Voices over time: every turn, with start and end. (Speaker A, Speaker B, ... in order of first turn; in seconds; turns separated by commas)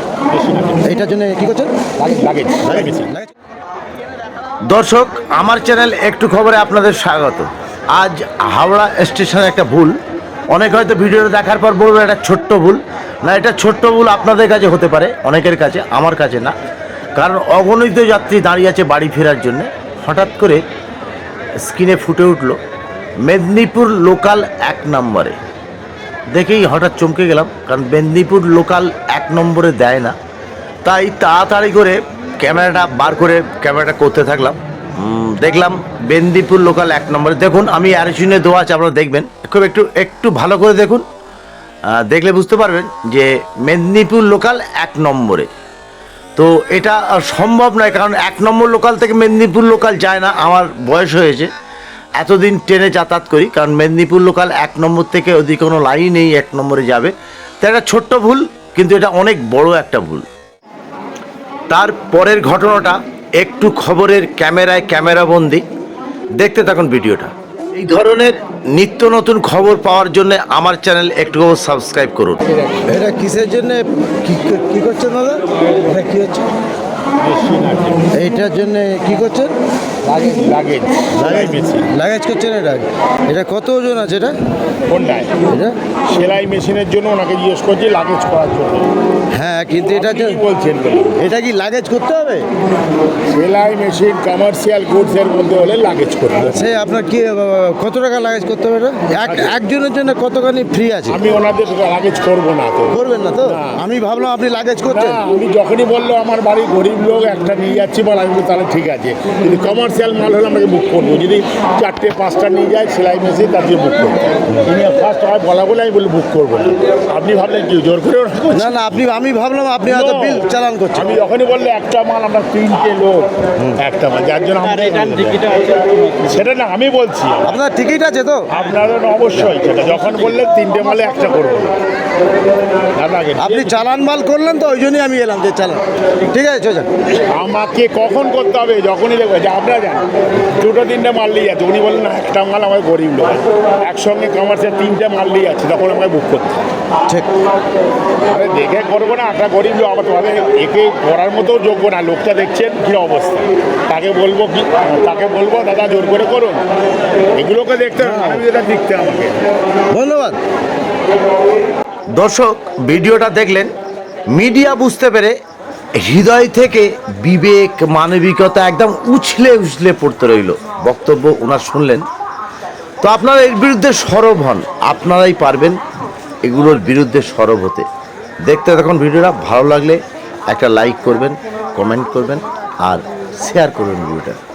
Speaker A: 0.3-0.9, Speaker B: 0.8-1.8, Speaker A: 2.0-3.1, Speaker B: 2.6-3.3, Speaker C: 4.7-9.9, Speaker C: 10.5-16.5, Speaker C: 17.1-20.6, Speaker C: 21.6-22.6, Speaker C: 23.2-25.4, Speaker C: 26.3-30.1, Speaker C: 30.8-41.0, Speaker C: 41.9-45.5, Speaker C: 46.4-51.5, Speaker C: 52.2-60.2, Speaker C: 61.7-65.6, Speaker C: 66.4-72.4, Speaker A: 72.5-72.8, Speaker B: 72.8-76.5, Speaker A: 77.2-78.1, Speaker B: 78.1-79.5, Speaker A: 80.0-81.9, Speaker B: 81.1-84.3, Speaker A: 84.9-85.3, Speaker B: 85.5-85.8, Speaker A: 86.1-88.9, Speaker B: 89.3-90.4, Speaker A: 89.9-91.2, Speaker B: 91.2-92.4, Speaker A: 93.3-96.7, Speaker B: 96.5-101.2, Speaker A: 99.2-99.5, Speaker A: 101.1-103.8, Speaker B: 102.9-105.2, Speaker A: 104.8-118.7, Speaker B: 118.5-121.1, Speaker A: 119.8-125.5, Speaker A: 126.2-127.6, Speaker B: 127.4-128.5, Speaker A: 128.5-131.8, Speaker A: 133.0-133.8, Speaker B: 133.4-136.9, Speaker A: 137.3-146.6, Speaker A: 148.3-156.6, Speaker A: 157.4-159.4, Speaker B: 158.0-158.4, Speaker B: 159.9-160.4, Speaker C: 162.1-163.7, Speaker C: 164.3-165.3, Speaker C: 166.0-172.0, Speaker C: 173.0-175.8, Speaker C: 176.4-177.9, Speaker C: 178.4-184.4